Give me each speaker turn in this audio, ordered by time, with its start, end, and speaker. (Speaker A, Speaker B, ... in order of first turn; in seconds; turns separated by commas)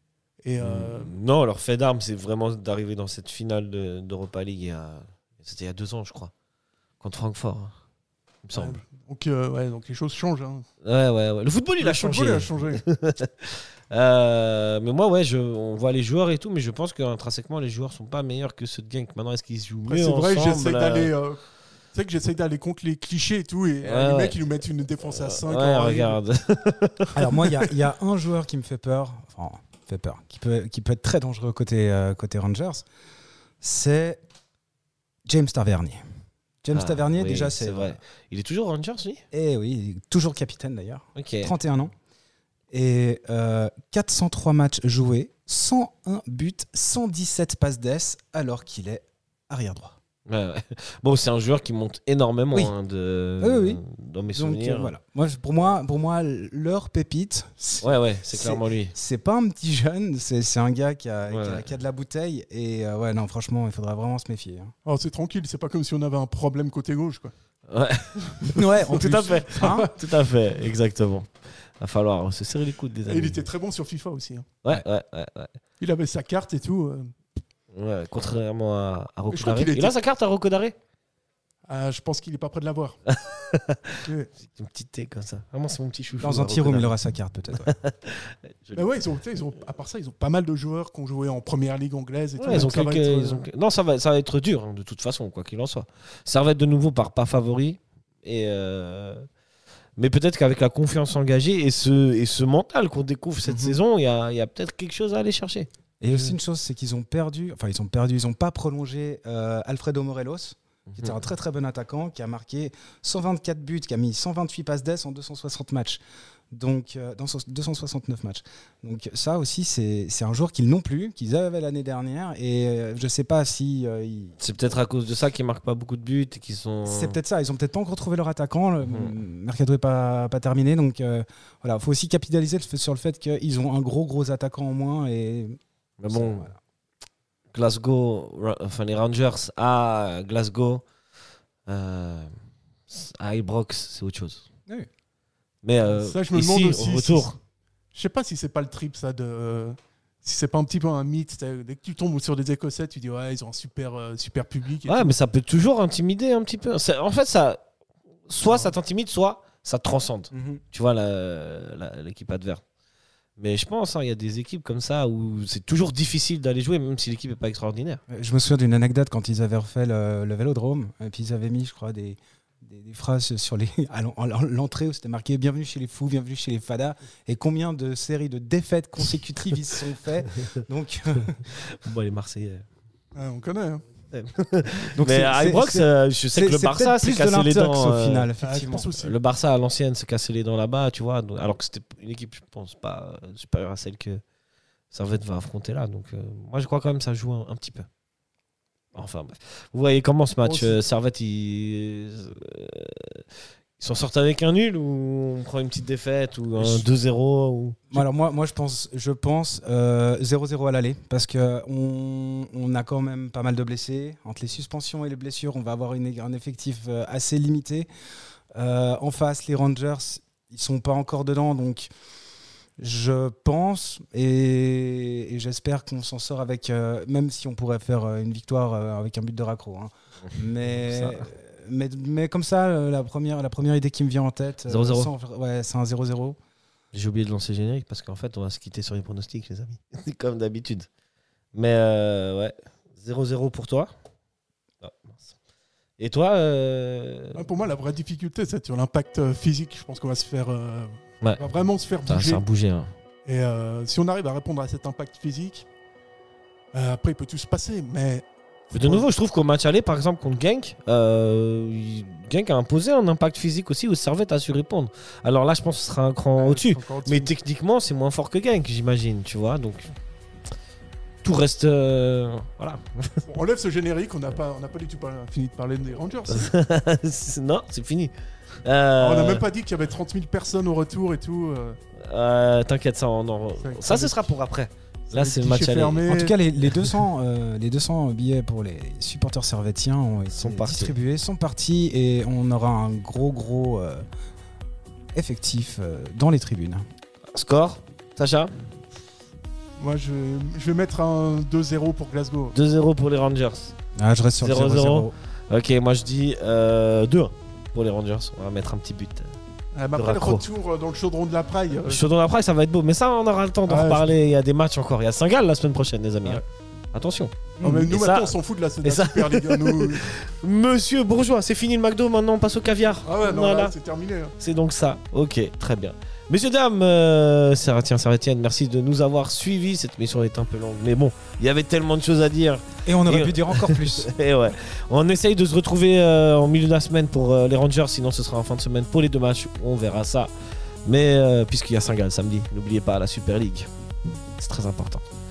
Speaker A: 0.4-1.1, Speaker B: 0.6-6.3, Speaker B: 7.0-7.7, Speaker B: 8.4-8.8, Speaker A: 8.5-10.7, Speaker B: 10.8-21.1, Speaker A: 11.8-12.8, Speaker A: 19.9-21.4, Speaker A: 21.9-26.2, Speaker B: 23.8-24.4, Speaker B: 25.0-27.4, Speaker C: 27.1-32.8, Speaker C: 33.6-34.2, Speaker C: 35.3-36.0, Speaker C: 36.6-38.0, Speaker B: 36.7-39.2, Speaker C: 39.3-41.9, Speaker B: 41.1-41.5, Speaker C: 42.7-50.0, Speaker B: 50.3-54.9, Speaker C: 53.4-53.8, Speaker C: 54.3-64.7, Speaker B: 57.8-58.9, Speaker B: 61.3-61.7, Speaker A: 64.8-67.3, Speaker B: 67.7-73.4, Speaker A: 68.3-69.9, Speaker C: 68.5-69.9, Speaker A: 73.0-74.5, Speaker B: 74.6-75.5, Speaker A: 75.8-77.1, Speaker B: 77.7-80.8, Speaker A: 79.3-80.0, Speaker A: 81.7-83.0, Speaker B: 83.1-87.0, Speaker A: 84.0-84.3, Speaker C: 86.2-87.7, Speaker B: 87.7-88.8, Speaker A: 88.7-93.4, Speaker B: 92.4-99.3, Speaker B: 100.0-106.3, Speaker C: 103.4-103.8, Speaker C: 106.0-116.0, Speaker C: 116.5-124.4, Speaker B: 124.4-127.2, Speaker C: 126.8-136.6, Speaker B: 128.8-129.1, Speaker B: 136.0-136.5, Speaker B: 137.5-140.8, Speaker B: 141.7-142.3, Speaker B: 142.9-144.4, Speaker B: 145.6-147.4, Speaker A: 145.8-147.4, Speaker A: 147.9-155.2, Speaker B: 154.8-157.6, Speaker B: 158.3-162.6, Speaker A: 158.5-158.7, Speaker C: 160.3-160.6, Speaker B: 163.4-168.0, Speaker C: 168.1-181.3, Speaker B: 181.3-182.6, Speaker A: 183.1-183.8, Speaker B: 184.1-188.3, Speaker C: 184.9-188.9, Speaker A: 188.4-189.2, Speaker B: 188.9-194.2, Speaker B: 194.9-197.9, Speaker B: 198.9-203.2, Speaker A: 200.4-200.8, Speaker B: 203.8-208.0, Speaker A: 206.5-206.8, Speaker C: 207.9-217.9, Speaker C: 218.5-221.9, Speaker C: 222.8-236.4, Speaker B: 230.7-231.3, Speaker B: 234.7-235.1, Speaker B: 236.9-240.9, Speaker B: 241.5-243.9, Speaker B: 244.8-245.3, Speaker B: 246.0-247.5, Speaker A: 247.3-252.4, Speaker B: 252.1-252.9, Speaker A: 253.2-255.7, Speaker A: 256.7-259.1, Speaker B: 258.7-269.9, Speaker A: 266.4-267.3, Speaker B: 271.2-273.2, Speaker A: 273.3-276.5, Speaker B: 276.3-278.1, Speaker B: 278.6-279.4, Speaker A: 279.0-281.8, Speaker B: 282.0-286.0, Speaker A: 283.6-284.3, Speaker A: 285.1-286.9, Speaker C: 286.1-294.1, Speaker B: 290.3-290.9, Speaker C: 295.1-296.8, Speaker B: 297.3-298.5, Speaker A: 299.8-302.5, Speaker B: 302.5-303.7, Speaker C: 304.0-305.1, Speaker B: 304.4-309.3, Speaker A: 309.7-312.0, Speaker B: 309.9-310.4, Speaker B: 311.8-323.7, Speaker A: 313.6-314.1, Speaker A: 317.6-320.1, Speaker A: 323.0-324.3, Speaker B: 324.4-340.3, Speaker C: 332.9-334.1, Speaker B: 340.8-343.7, Speaker B: 344.4-345.0